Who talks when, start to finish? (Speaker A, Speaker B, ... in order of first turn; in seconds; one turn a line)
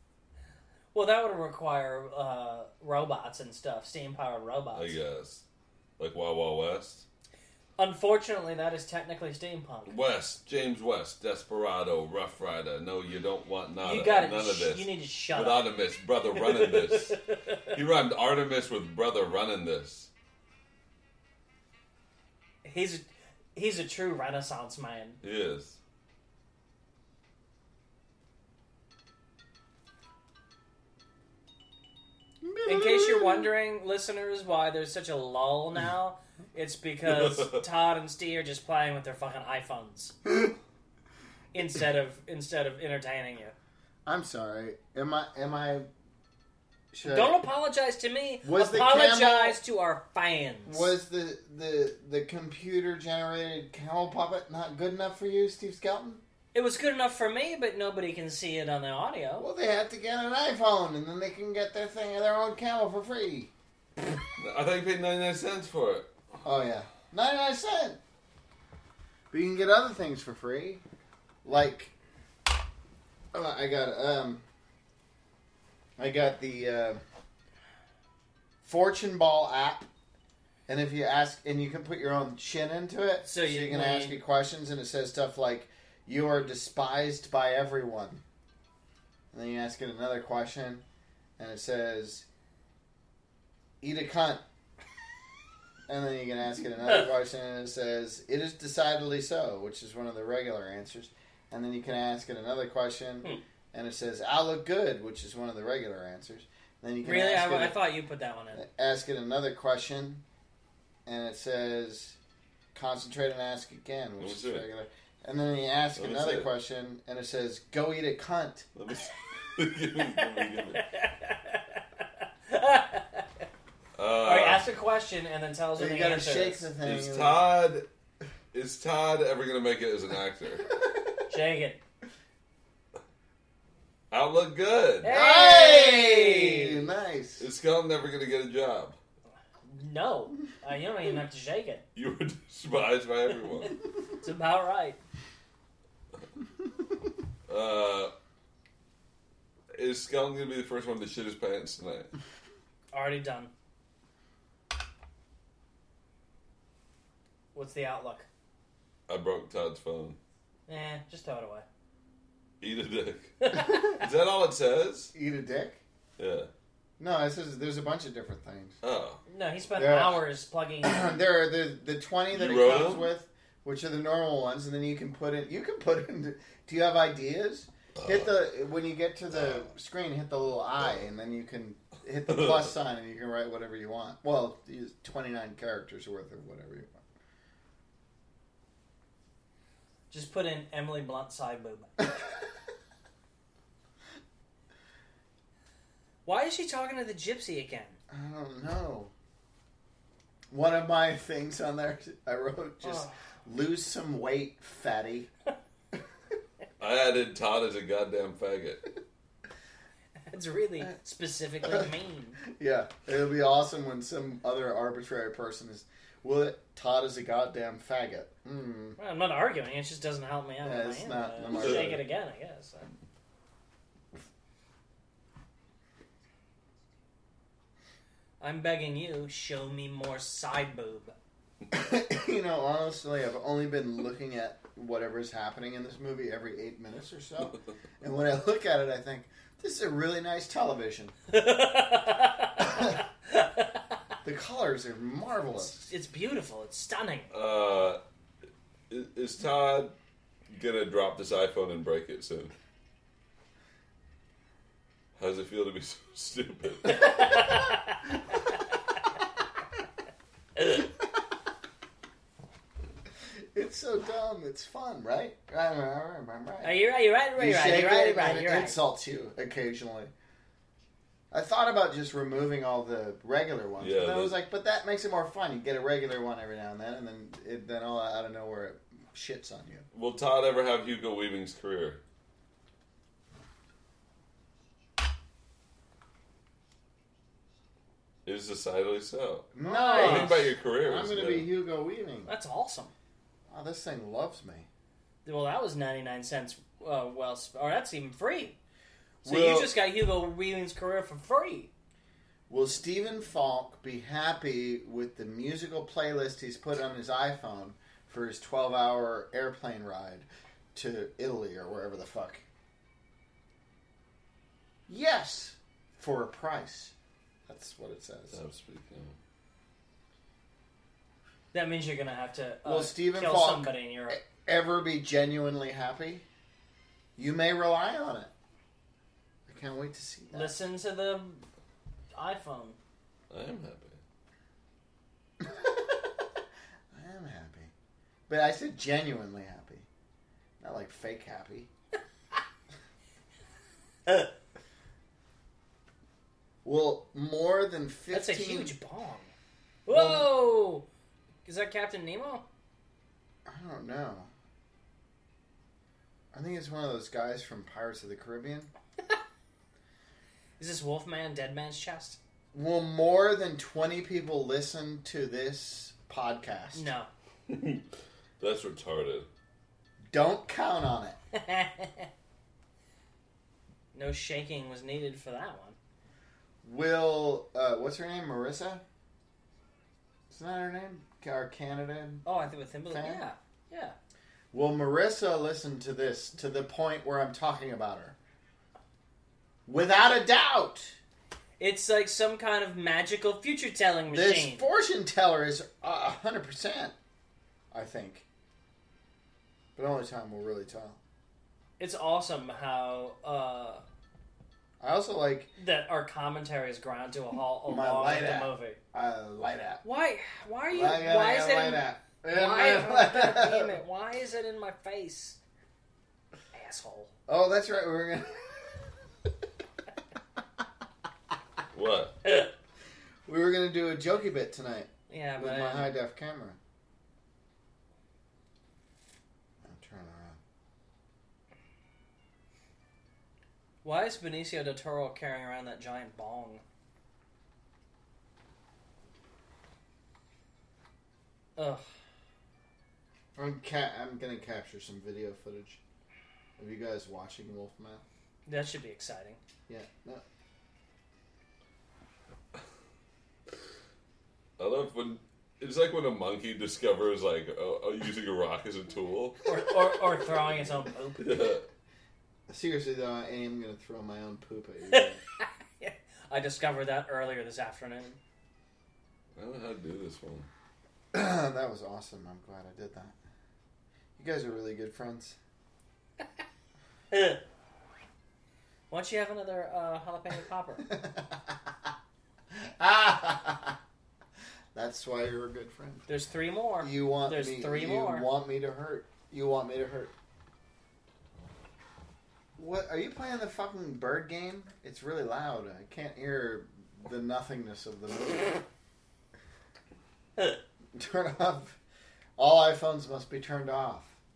Speaker A: 0.9-5.0
Speaker B: 4.7-5.4
Speaker B: 6.0-7.0
Speaker A: 7.8-9.9
Speaker B: 9.9-20.1
Speaker A: 13.8-15.7
Speaker A: 16.4-17.7
Speaker A: 22.6-25.2
Speaker B: 25.2-25.8
Speaker C: 32.4-33.5
Speaker A: 32.6-40.1
Speaker B: 37.1-37.6
Speaker C: 40.3-40.5
Speaker A: 41.5-43.5
Speaker C: 44.0-45.9
Speaker C: 46.9-47.4
Speaker A: 47.0-50.9
Speaker C: 48.4-49.6
Speaker C: 50.6-56.2
Speaker A: 56.5-59.5
Speaker C: 59.4-63.5
Speaker B: 64.4-66.1
Speaker C: 66.4-68.0
Speaker C: 69.3-70.8
Speaker C: 71.4-71.9
Speaker C: 73.3-74.4
Speaker C: 76.0-77.0
Speaker C: 78.6-79.9
Speaker C: 80.7-88.2
Speaker A: 83.2-84.2
Speaker C: 89.3-90.8
Speaker C: 91.4-92.2
Speaker C: 93.8-94.4
Speaker C: 95.9-107.8
Speaker A: 107.0-108.6
Speaker C: 108.5-110.2
Speaker C: 111.0-112.2
Speaker C: 112.7-118.7
Speaker B: 114.2-114.7
Speaker B: 116.0-116.5
Speaker B: 118.8-120.8
Speaker A: 120.0-123.4
Speaker B: 124.0-124.6
Speaker A: 124.2-126.7
Speaker C: 125.8-127.4
Speaker B: 126.8-127.8
Speaker B: 128.5-130.7
Speaker A: 131.3-131.8
Speaker B: 134.1-135.1
Speaker A: 135.0-136.8
Speaker C: 135.1-137.5
Speaker B: 137.4-138.9
Speaker A: 139.6-141.8
Speaker B: 141.9-143.7
Speaker A: 144.2-145.0
Speaker B: 147.5-148.1
Speaker B: 149.7-152.1
Speaker A: 152.9-153.5
Speaker A: 157.5-158.3
Speaker B: 159.1-160.2
Speaker A: 160.7-161.6
Speaker B: 162.6-165.1
Speaker A: 163.4-163.9
Speaker C: 165.1-165.8
Speaker B: 166.2-166.5
Speaker C: 167.0-168.8
Speaker B: 168.8-169.2
Speaker A: 169.3-171.1
Speaker C: 169.8-170.2
Speaker C: 170.8-187.0
Speaker B: 172.3-173.1
Speaker B: 178.0-178.3
Speaker A: 190.1-191.9
Speaker A: 196.2-198.0
Speaker C: 198.1-199.1
Speaker C: 200.5-205.3
Speaker A: 202.8-203.1
Speaker B: 206.8-208.8
Speaker A: 210.3-212.4
Speaker C: 211.6-211.9
Speaker C: 212.4-219.0
Speaker A: 219.0-222.9
Speaker C: 220.6-222.0
Speaker B: 221.5-221.9
Speaker A: 228.4-231.1
Speaker C: 231.7-241.1
Speaker A: 241.3-243.8
Speaker C: 242.7-242.9
Speaker C: 244.2-245.9
Speaker A: 245.6-247.3
Speaker B: 247.3-248.0
Speaker B: 248.9-249.9
Speaker B: 250.5-252.5
Speaker B: 255.2-257.4
Speaker A: 256.9-258.0
Speaker C: 263.5-266.8
Speaker A: 266.6-268.8
Speaker C: 267.4-270.1
Speaker C: 271.3-279.8
Speaker B: 273.8-274.3
Speaker B: 279.9-282.0
Speaker B: 288.2-291.5
Speaker C: 289.5-292.3
Speaker A: 289.6-290.4
Speaker A: 292.3-292.9
Speaker C: 293.5-294.7
Speaker A: 295.2-298.6
Speaker A: 299.2-301.7
Speaker C: 299.2-299.7
Speaker C: 302.5-312.4
Speaker C: 314.9-316.9
Speaker C: 317.5-318.4
Speaker B: 318.3-319.2
Speaker A: 321.5-324.2
Speaker C: 322.6-326.2
Speaker C: 327.2-328.3
Speaker C: 329.5-330.5
Speaker A: 330.3-331.4
Speaker A: 332.1-332.8
Speaker B: 333.3-334.0
Speaker C: 335.4-337.7
Speaker C: 338.3-339.9
Speaker C: 340.6-341.7
Speaker C: 346.6-348.7
Speaker A: 348.1-349.3
Speaker A: 349.9-350.8
Speaker C: 349.9-350.3
Speaker A: 351.4-352.4
Speaker C: 353.4-354.3
Speaker C: 356.3-358.7
Speaker A: 360.6-362.2
Speaker C: 362.5-366.9
Speaker A: 366.7-367.1
Speaker B: 367.5-367.8
Speaker B: 368.4-369.3
Speaker C: 370.1-371.2
Speaker A: 371.3-372.1
Speaker A: 373.9-375.8
Speaker C: 376.6-378.8
Speaker C: 380.3-382.2
Speaker A: 382.2-383.9
Speaker C: 382.9-383.2
Speaker C: 384.5-388.1
Speaker C: 389.6-391.0
Speaker A: 391.6-394.7
Speaker C: 394.1-396.9
Speaker C: 397.7-398.2
Speaker C: 399.8-401.0
Speaker A: 401.8-403.8
Speaker C: 404.8-405.5
Speaker A: 405.6-408.8
Speaker C: 407.7-409.8
Speaker A: 409.8-415.4
Speaker C: 410.7-413.7
Speaker A: 416.5-417.1
Speaker C: 417.3-418.9
Speaker B: 421.7-422.1
Speaker A: 422.2-422.5
Speaker C: 423.2-426.6
Speaker A: 425.1-425.9
Speaker C: 429.6-430.4
Speaker A: 433.8-436.6
Speaker A: 441.6-441.8
Speaker C: 443.3-445.8
Speaker C: 446.6-448.0
Speaker A: 448.4-449.4
Speaker C: 449.7-450.2
Speaker B: 454.6-459.5
Speaker A: 459.4-461.4
Speaker B: 460.3-461.6
Speaker C: 462.5-465.2
Speaker A: 464.9-468.2
Speaker B: 469.4-470.5
Speaker C: 471.1-473.1
Speaker C: 474.2-475.4
Speaker A: 477.1-477.4
Speaker A: 478.9-480.9
Speaker C: 480.9-481.5
Speaker C: 482.5-483.8
Speaker C: 484.7-486.1
Speaker A: 486.1-488.2
Speaker C: 486.8-490.1
Speaker C: 492.6-498.6
Speaker C: 500.9-501.8
Speaker C: 502.4-504.1